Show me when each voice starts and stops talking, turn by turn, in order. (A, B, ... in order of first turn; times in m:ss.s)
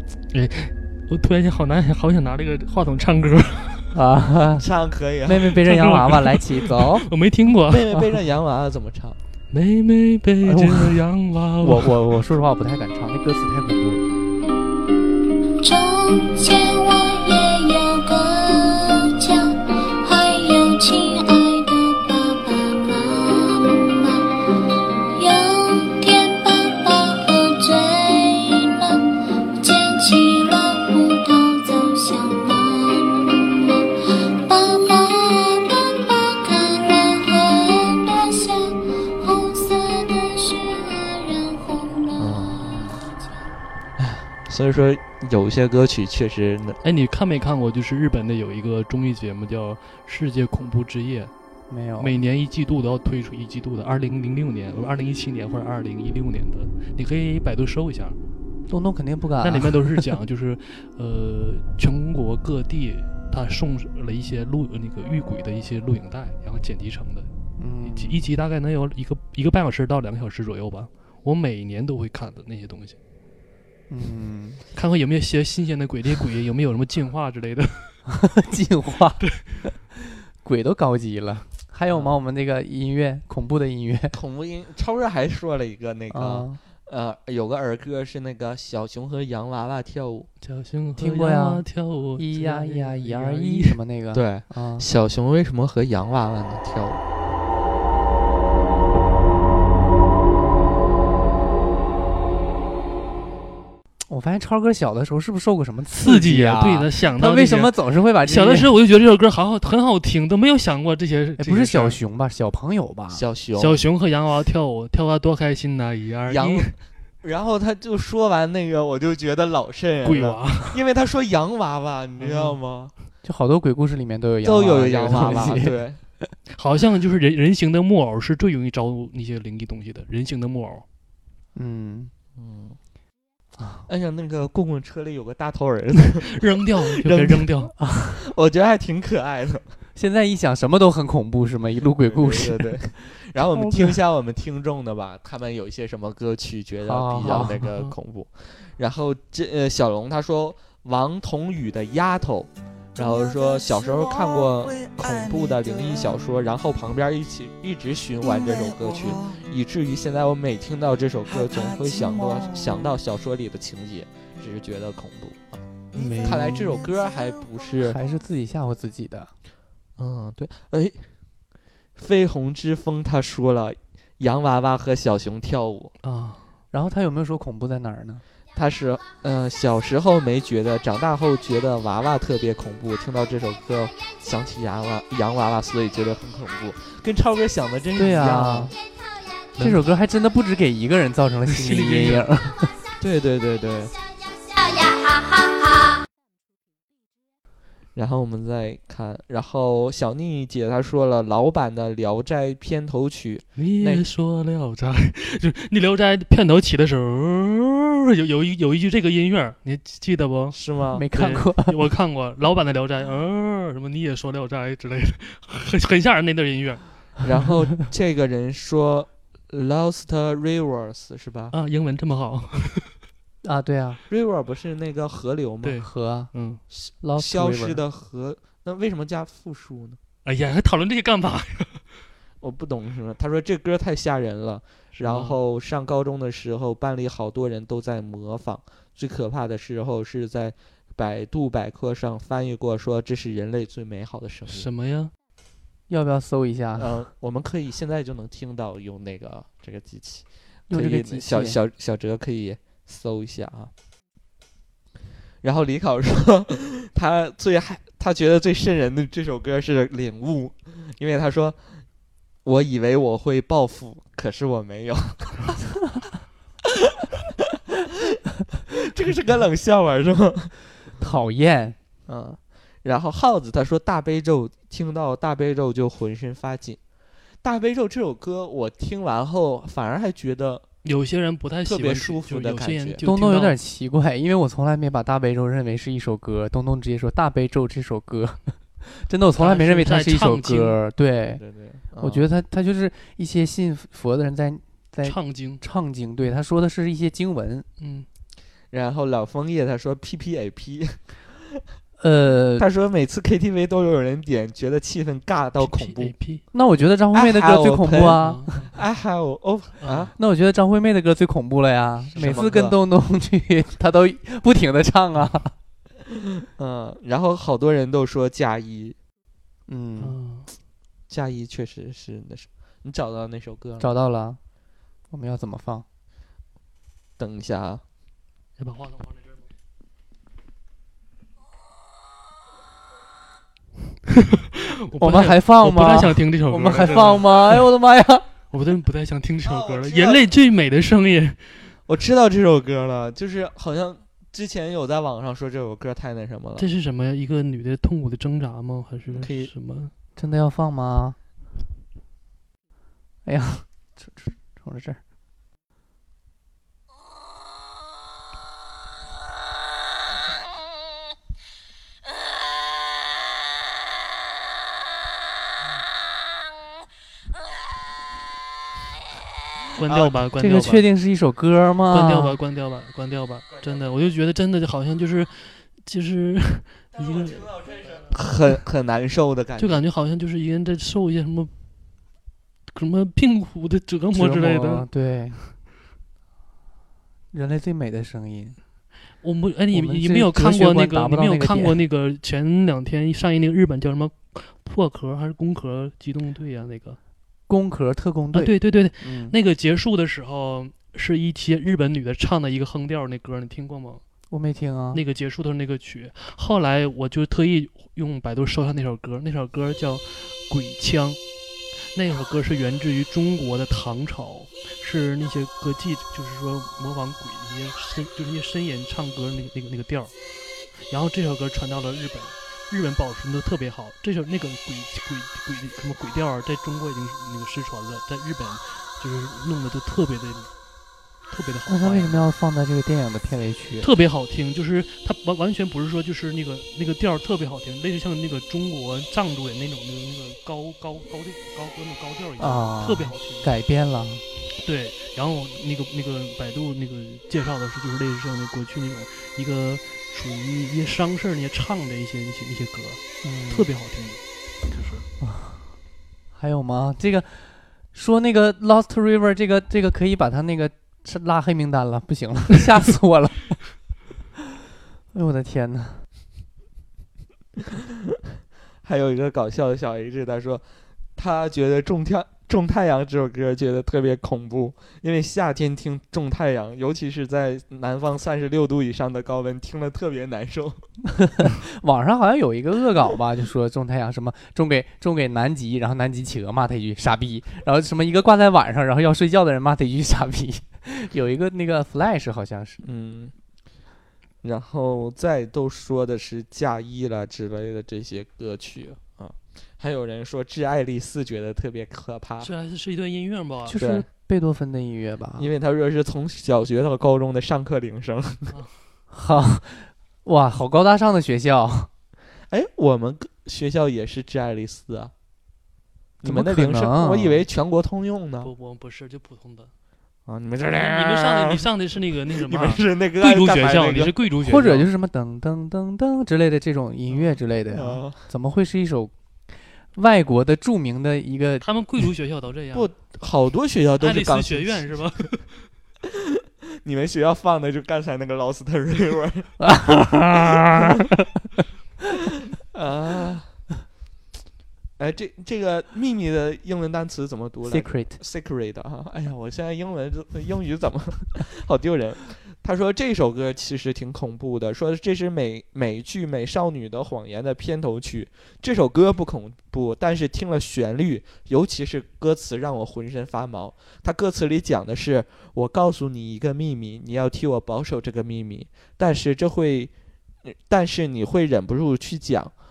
0:00.3-0:03.8 A
0:03.9-0:04.7 B
0:04.5-0:05.5 C
0:05.2-0:07.1 B
0:05.6-0:07.8 A
0:07.7-0:09.2 C
0:09.5-0:11.9 A
0:10.4-0:11.0 B
0:11.6-0:14.1 B
0:15.6-0:24.4 D
0:25.2-0:42.6 D
0:42.2-0:42.8 C
0:42.7-0:42.9 B
0:44.0-0:46.8 C
0:46.8-0:51.3 A
0:51.7-0:52.2 B
0:52.0-0:58.2 A
0:58.7-1:00.1 B
0:59.4-1:07.3 A
1:07.6-1:08.2 B
1:07.8-1:13.0 A
1:13.9-1:14.6 B
1:14.7-1:17.9 A
1:18.1-1:24.2 B
1:21.9-1:22.1 C
1:24.1-1:30.3 C
1:26.1-1:26.6 B
1:30.4-1:33.8 A
1:31.0-1:31.6 B
1:32.2-1:34.8 B
1:34.1-1:37.0 C
1:44.1-1:48.7 B
1:46.0-1:52.0 A
1:51.4-1:53.2 B
1:53.1-1:53.8 C
1:53.6-1:56.7 A
1:56.3-2:02.9 C
2:00.0-2:00.8 A
2:02.2-2:02.6 A
2:03.2-2:05.8 B
2:04.4-2:06.0 C
2:06.6-2:10.8 A
2:11.5-2:12.1 B
2:12.4-2:12.8 C
2:13.6-2:13.9 B
2:13.9-2:16.4 C
2:16.2-2:17.7 A
2:17.0-2:17.5 C
2:17.8-2:18.2 B
2:18.1-2:19.6 C
2:20.0-2:22.8 B
2:22.0-2:48.0 C
2:23.6-2:23.9 B
2:26.8-2:27.6 B
2:27.4-2:27.9 A
2:45.9-2:46.7 A
2:47.8-2:49.3 B
2:50.0-2:51.1 C
2:52.0-2:55.9 C
2:56.0-2:56.4 A
2:56.7-2:58.2 B
2:58.5-3:08.7 C
3:08.0-3:08.7 B
3:09.6-3:09.9 A
3:09.6-3:12.7 B
3:11.5-3:12.3 A
3:13.0-3:13.9 C
3:17.9-3:24.0 C
3:23.6-3:36.8 A
3:30.5-3:31.0 C
3:30.9-3:31.8 B
3:37.2-3:41.5 C
3:41.5-3:42.9 A
3:43.4-3:44.0 B
3:44.1-3:45.8 C
3:45.6-3:46.6 A
3:45.8-3:46.3 B
3:46.7-3:50.0 C
3:47.0-3:47.8 B
3:50.2-3:51.8 A
3:52.4-4:04.7 C
3:55.0-3:55.4 A
4:04.5-4:05.1 A
4:05.9-4:07.0 B
4:06.8-4:13.7 C
4:10.7-4:11.6 B
4:15.4-4:21.6 C
4:22.4-4:25.6 C
4:27.7-4:30.5 C
4:31.0-4:31.8 B
4:32.1-4:36.8 C
4:37.4-4:40.6 C
4:40.8-4:43.6 A
4:41.6-4:43.0 C
4:43.0-4:51.4 B
4:49.4-4:50.8 A
4:51.3-4:52.2 C
4:52.0-4:57.7 B
4:55.0-4:55.6 A
4:57.8-4:58.1 A
4:58.7-5:01.6 C
5:02.0-5:02.6 B
5:02.6-5:06.1 C
5:05.6-5:06.4 A
5:06.5-5:08.5 B
5:07.1-5:10.1 C
5:08.2-5:08.7 A
5:09.8-5:10.1 A
5:10.2-5:15.5 B
5:12.1-5:12.5 A
5:12.2-5:12.8 C
5:16.4-5:19.0 C
5:19.7-5:20.2 B
5:20.0-5:20.5 A
5:21.1-5:23.9 C
5:23.8-5:24.4 B
5:25.1-5:25.8 B
5:27.2-5:27.8 C
5:28.6-5:29.4 A
5:34.6-5:37.6 A
5:35.0-5:38.3 B
5:38.5-5:41.5 A
5:39.4-5:40.3 C
5:41.9-5:46.7 C
5:46.6-5:49.9 A
5:49.1-5:49.5 C
5:50.2-5:51.2 B
5:53.2-5:55.0 B
6:09.8-6:10.8 A
6:10.4-6:12.4 B
6:11.9-6:18.0 A
6:17.6-6:19.8 C
6:19.6-6:21.5 A
6:22.7-6:24.9 A
6:24.1-6:25.4 B
6:27.3-6:28.6 B
6:29.2-6:37.0 A
6:29.7-6:31.8 B
6:37.5-6:39.4 B
6:38.3-6:44.0 A
6:44.3-6:45.0 B
6:44.9-6:51.2 A
6:51.9-7:00.1 A
7:00.7-7:10.5 A
7:11.2-7:12.2 A
7:11.7-7:13.9 B
7:13.8-7:23.5 A
7:22.4-7:24.2 B
7:24.6-7:35.0 A
7:33.2-7:33.7 B
7:35.2-7:35.7 B
7:36.3-7:43.6 B
7:45.1-7:46.0 B
7:48.8-8:00.8 C
8:01.1-8:12.8 B
8:12.8-8:13.3 C
8:14.4-8:22.5 C
8:22.4-8:23.7 A
8:23.6-8:25.5 B
8:23.8-8:24.0 C
8:25.4-8:28.5 C
8:29.1-8:31.9 B
8:32.5-8:35.1 C
8:36.2-8:37.4 B
8:36.2-8:38.5 C
8:38.4-8:39.7 A
8:40.3-8:41.6 C
8:40.8-8:44.9 A
8:42.3-8:44.2 C
8:44.4-8:49.1 B
8:47.7-8:48.2 C
8:49.9-8:51.6 B
8:51.6-8:52.9 A
8:52.7-8:55.0 C
8:54.0-8:55.5 A
8:56.8-8:59.5 C
8:59.6-9:01.6 B
9:02.5-9:03.5 C
9:05.0-9:29.9 C
9:07.6-9:08.2 B
9:30.4-9:32.5 C